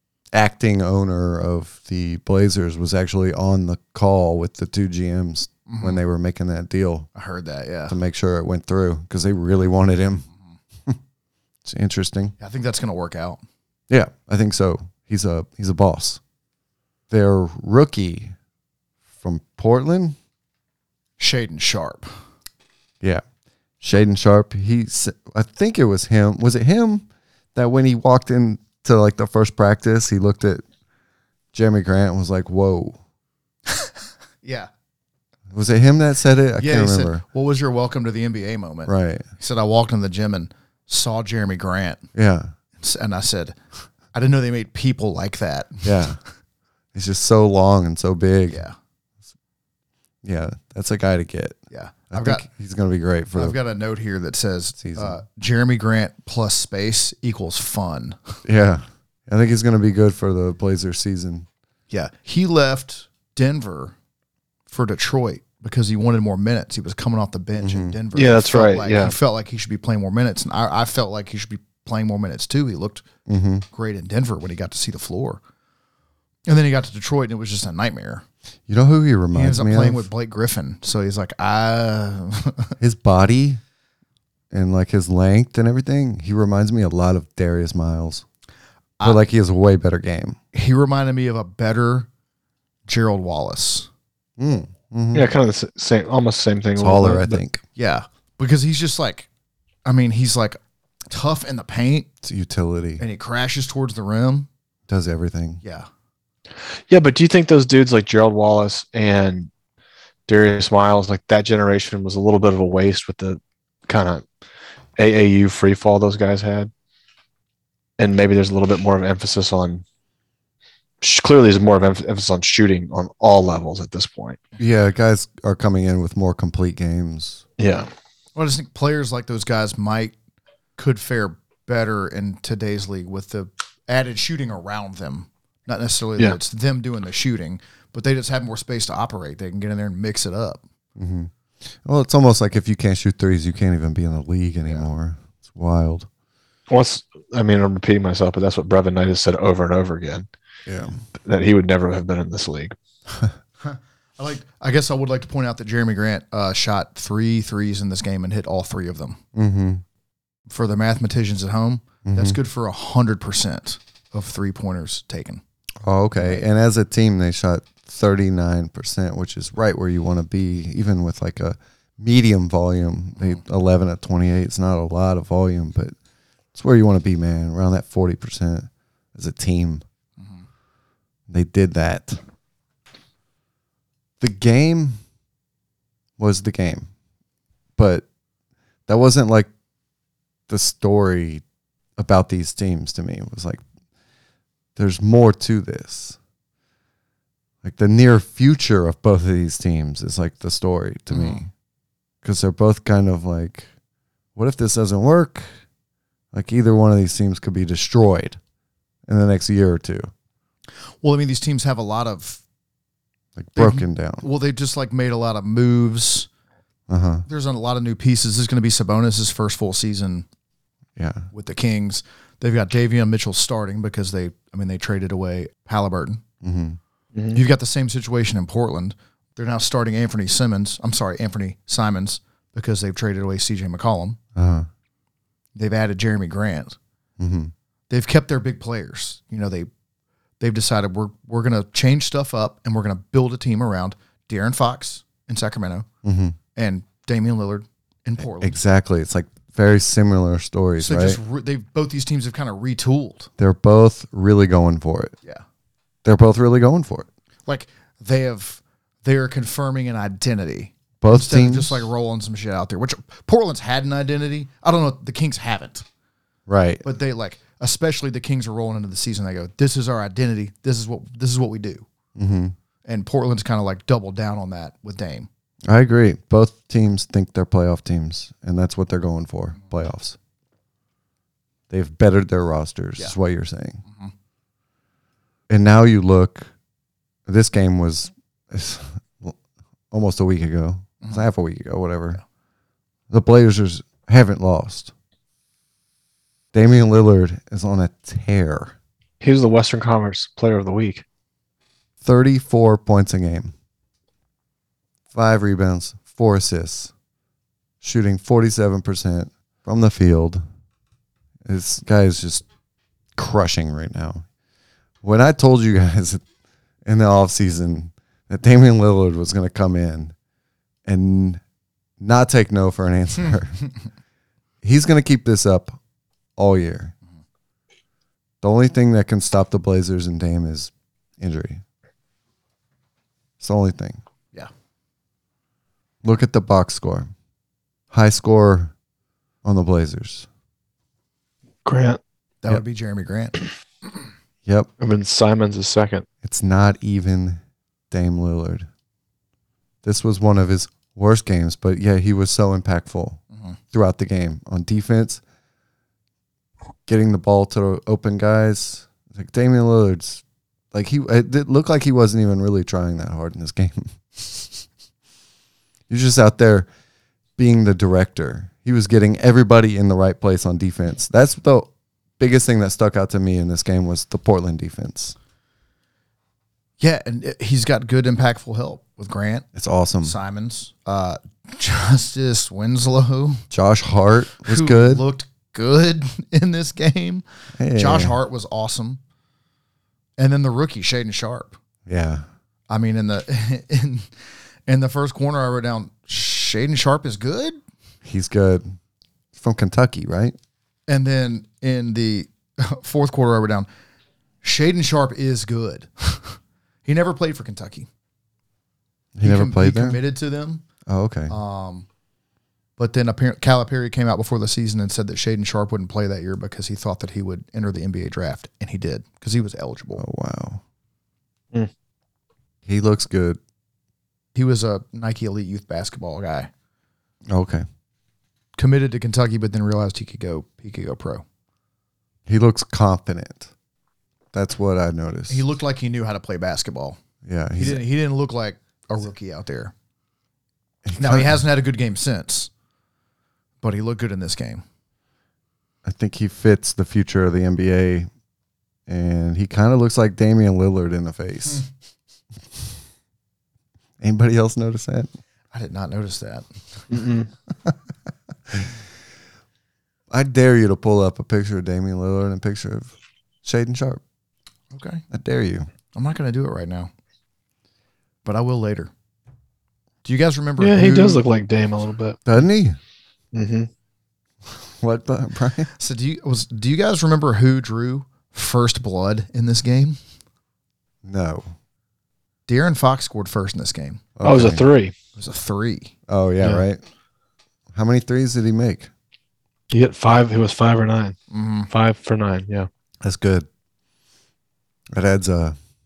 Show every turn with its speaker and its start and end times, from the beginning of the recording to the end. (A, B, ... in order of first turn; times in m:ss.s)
0:00.3-0:07.1 A
0:05.7-0:06.0 B
0:07.2-0:08.0 B
0:07.9-0:10.2 A
0:11.6-0:12.3 A
0:12.4-0:13.4 B
0:13.9-0:16.2 A
0:17.1-0:18.3 A
0:19.2-0:20.2 A
0:21.2-0:22.1 B
0:23.8-0:30.6 A
0:31.5-0:33.0 A
0:34.4-0:34.7 B
0:35.5-0:37.2 A
0:36.6-0:42.0 B
0:38.8-0:39.2 A
0:42.1-0:42.5 A
0:42.8-0:43.6 B
0:44.1-0:46.1 B
0:45.8-0:46.2 A
0:46.9-0:48.6 A
0:48.5-0:48.8 B
0:50.2-0:51.6 A
0:51.7-0:52.4 B
0:52.1-0:53.6 A
0:53.3-0:58.4 B
0:54.8-0:55.2 A
0:58.4-1:01.5 A
1:01.9-1:03.9 B
1:04.7-1:13.0 B
1:07.6-1:08.0 A
1:08.1-1:09.1 C
1:13.3-1:13.6 A
1:13.7-1:15.4 B
1:16.5-1:18.2 B
1:18.7-1:20.1 A
1:19.3-1:22.7 B
1:22.8-1:23.6 A
1:24.5-1:28.2 A
1:29.0-1:30.4 A
1:30.5-1:32.1 B
1:32.9-1:33.9 B
1:34.4-1:35.3 A
1:35.1-1:37.4 C
1:36.8-1:37.6 A
1:37.8-1:39.3 B
1:39.8-1:40.6 B
1:41.1-1:42.1 B
1:42.2-1:43.0 A
1:43.0-1:44.5 B
1:44.9-1:45.6 A
1:46.9-1:49.5 C
1:50.3-1:54.2 C
1:55.0-1:56.7 C
1:58.0-1:59.8 C
2:01.0-2:04.4 C
2:04.6-2:07.4 A
2:07.6-2:07.9 C
2:08.4-2:10.1 B
2:10.8-2:20.6 B
2:21.0-2:21.3 A
2:21.8-2:26.1 A
2:26.7-2:30.3 C
2:30.6-2:31.0 A
2:31.2-2:32.8 C
2:33.6-2:39.2 B
2:39.3-2:39.8 A
2:40.5-2:45.4 B
2:42.0-2:42.4 A
2:45.8-2:55.9 A
2:46.2-2:46.4 B
2:56.5-2:59.8 A
3:00.2-3:00.4 B
3:01.3-3:02.2 A
3:04.2-3:05.0 A
3:06.2-3:06.9 A
3:07.8-3:08.0 A
3:08.9-3:09.5 A
3:10.5-3:11.4 A
3:12.0-3:13.6 A
3:14.8-3:16.2 A
3:17.6-3:21.5 A
3:21.1-3:21.4 B
3:22.2-3:23.7 A
3:24.3-3:25.4 A
3:26.3-3:28.4 A
3:29.1-3:30.1 A
3:31.0-3:32.4 B
3:33.4-3:34.2 A
3:33.6-3:36.3 B
3:36.9-3:37.2 A
3:37.3-3:40.2 B
3:41.0-3:41.3 A
3:41.3-3:46.2 B
3:46.4-3:46.8 A
3:47.3-3:54.2 B
3:54.4-3:54.7 A
3:55.5-3:56.8 B
3:57.2-3:57.5 A
3:57.9-3:59.7 B
4:00.4-4:05.9 B
4:06.0-4:06.4 A
4:06.5-4:08.6 B
4:08.2-4:11.2 A
4:10.8-4:13.3 B
4:13.4-4:15.1 A
4:16.0-4:17.1 A
4:17.5-4:25.8 B
4:21.0-4:21.9 A
4:26.5-4:26.8 A
4:26.8-4:31.8 B
4:32.2-4:32.5 A
4:32.8-4:35.3 B
4:35.7-4:40.2 A
4:41.7-4:43.8 A
4:45.5-4:46.5 A
4:47.3-4:49.4 A
4:49.9-4:52.2 A
4:53.1-4:54.9 A
4:56.5-4:58.7 A
4:59.2-5:01.0 C
5:02.0-5:03.5 A
5:05.1-5:06.9 A
5:07.8-5:10.4 A
5:11.4-5:12.4 A
5:13.1-5:14.2 A
5:15.0-5:16.2 A
5:16.8-5:20.1 A
5:20.8-5:21.4 A
5:22.0-5:23.6 A
5:24.6-5:25.8 A
5:26.4-5:26.9 A
5:28.4-5:31.6 A
5:33.4-5:34.0 A
5:36.0-5:37.1 A
5:37.9-5:38.7 A
5:39.4-5:40.3 A
5:41.6-5:42.0 C
5:42.4-5:43.4 B
5:44.8-5:46.0 C
5:46.2-5:48.7 A
5:49.8-5:53.2 A
5:53.7-5:55.2 A
5:56.9-6:04.6 A
6:05.9-6:06.7 A
6:07.4-6:15.2 A
6:16.8-6:19.4 B
6:19.5-6:20.2 A
6:20.0-6:23.4 B
6:23.5-6:25.0 A
6:24.4-6:29.0 B
6:27.6-6:28.2 A
6:30.2-6:31.6 B
6:31.8-6:32.2 A
6:32.7-6:34.1 B
6:34.7-6:37.6 B
6:38.0-6:38.7 A
6:39.3-6:40.4 A
6:40.9-6:43.7 B
6:44.4-6:47.9 B
6:49.2-6:50.0 A
6:49.2-6:50.6 B
6:50.9-6:51.3 A
6:51.3-6:51.8 B
6:52.8-7:00.0 B
7:00.0-7:00.6 A
7:02.6-7:03.4 A
7:04.3-7:06.5 B
7:07.3-7:07.6 A
7:08.6-7:11.2 B
7:12.2-7:13.5 A
7:14.3-7:15.4 A
7:15.3-7:17.0 B
7:17.2-7:17.8 A
7:17.6-7:19.7 B
7:20.8-7:21.4 A
7:21.0-7:22.5 B
7:23.6-7:24.6 B
7:25.8-7:28.1 A
7:28.9-7:31.6 A
7:34.0-7:35.1 A
7:35.5-7:36.9 B
7:36.9-7:37.3 C
7:40.1-7:42.9 A
7:43.4-7:44.0 A
7:44.7-7:45.0 B
7:45.1-7:45.7 A
7:45.9-7:46.9 B
7:48.2-7:48.9 B
7:50.0-7:51.2 B
7:50.6-7:52.2 C
7:52.2-7:52.8 A
7:53.3-7:53.7 C
7:54.5-7:55.7 A
7:55.8-8:00.0 B
8:01.0-8:01.5 A
8:02.5-8:04.0 B
8:04.2-8:04.6 A
8:04.2-8:04.9 C
8:05.2-8:05.9 B
8:06.1-8:06.8 A
8:07.7-8:08.9 A
8:09.7-8:11.2 C
8:11.3-8:11.7 B
8:11.7-8:12.7 C
8:13.0-8:13.5 A
8:14.9-8:15.6 A